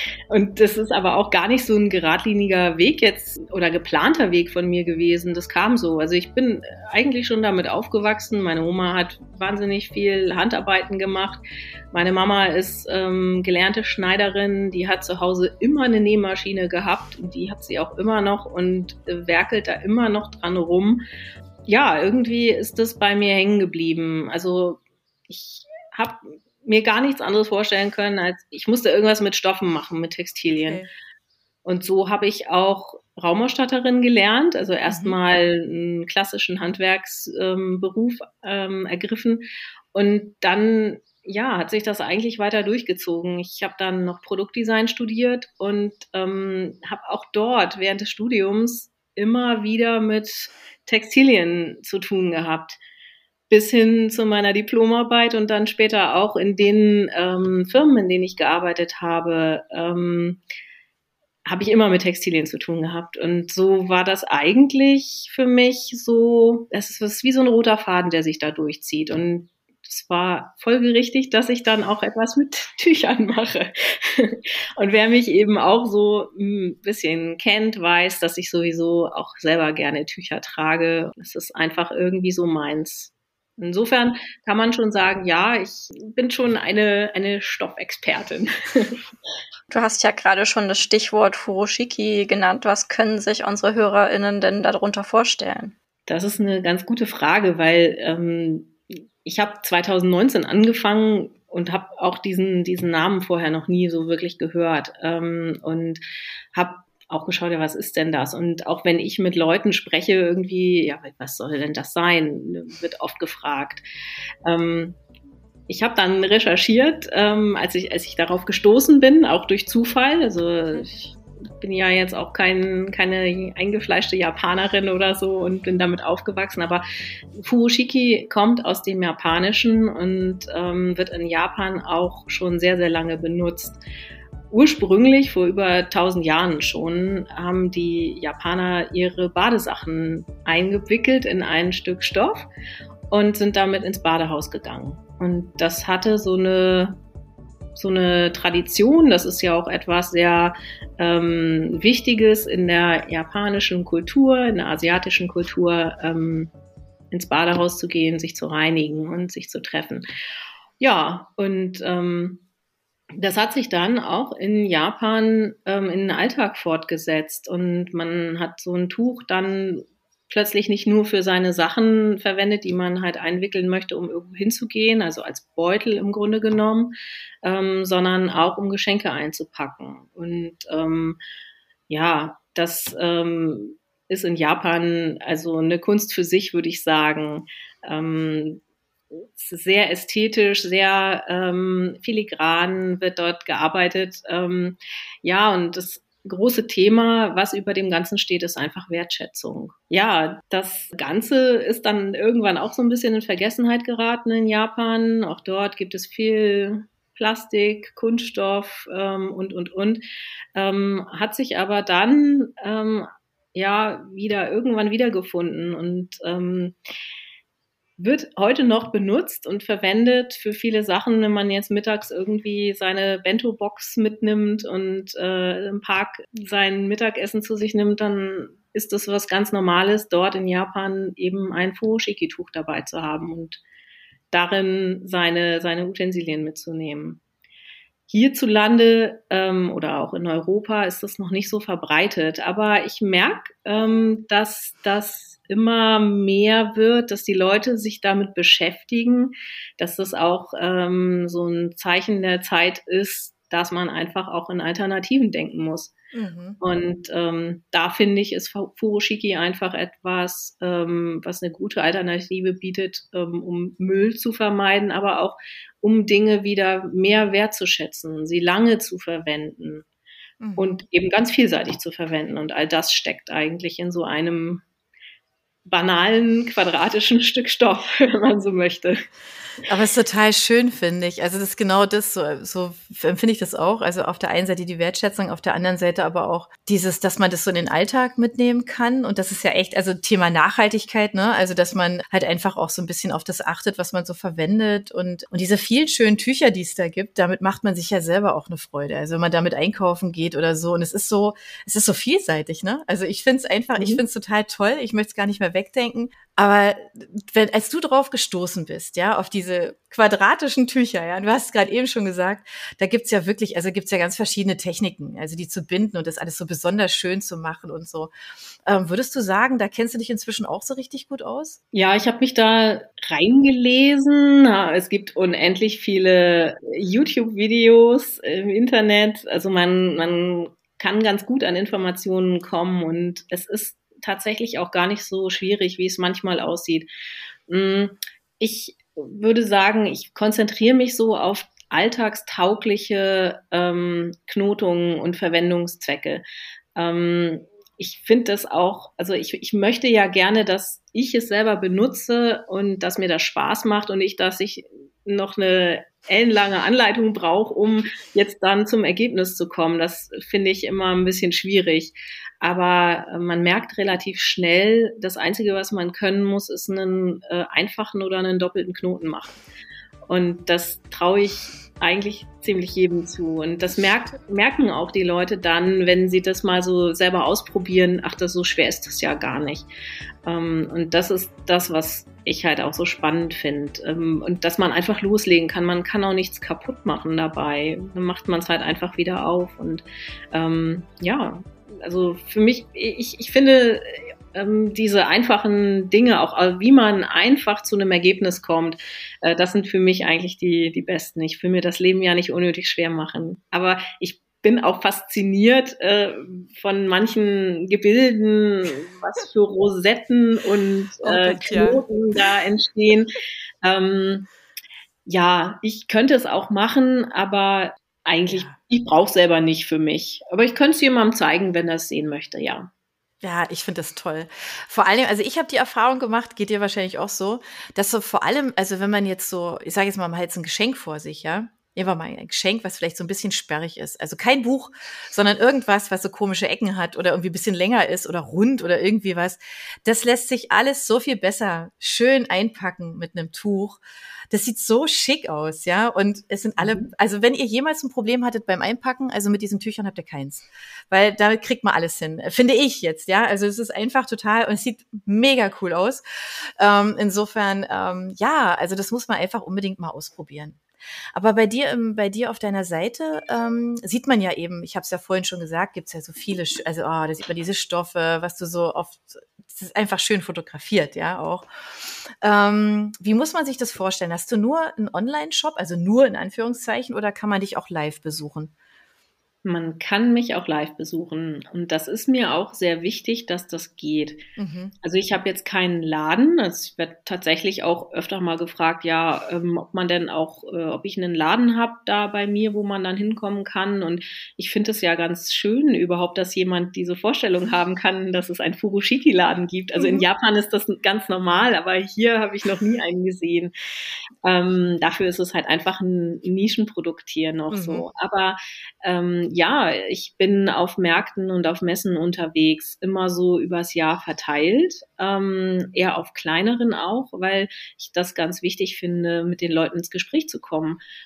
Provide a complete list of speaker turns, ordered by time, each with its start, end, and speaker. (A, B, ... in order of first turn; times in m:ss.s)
0:00.3-0:21.0 A
0:21.7-0:30.8 A
0:31.6-0:52.8 A
0:34.9-0:35.2 B
0:53.5-1:00.4 A
1:01.4-1:29.0 A
1:29.7-1:35.7 C
1:36.1-1:46.0 A
1:46.5-1:53.8 A
1:54.4-1:55.0 A
1:55.7-2:13.8 A
2:14.5-2:22.5 A
2:23.1-2:27.0 A
2:27.7-2:36.5 A
2:37.1-2:40.0 A
2:40.8-2:42.4 A
2:43.2-3:01.2 A
3:01.9-3:08.6 A
3:09.1-3:36.8 A
3:38.0-3:53.6 A
3:54.3-3:57.2 A
3:58.1-4:15.9 A
4:16.1-4:16.6 B
4:16.6-4:29.8 A
4:30.4-4:30.7 B
4:30.6-4:34.6 A
4:35.6-4:39.0 A
4:39.7-5:18.1 B
5:18.6-5:21.6 B
5:21.7-5:36.9 A
5:37.5-5:46.2 A
5:46.8-6:09.4 A
6:10.1-6:19.7 A
6:20.2-6:54.3 A
6:51.0-6:51.8 B
6:55.0-7:02.7 A
6:58.3-6:58.6 B
7:03.2-7:36.0 B
7:36.6-7:40.6 B
7:41.1-7:58.5 B
7:59.4-8:04.2 A
8:04.4-8:04.7 B
8:04.8-8:23.5 A
8:19.8-8:20.0 B
8:24.2-8:40.8 A
8:27.5-8:27.8 B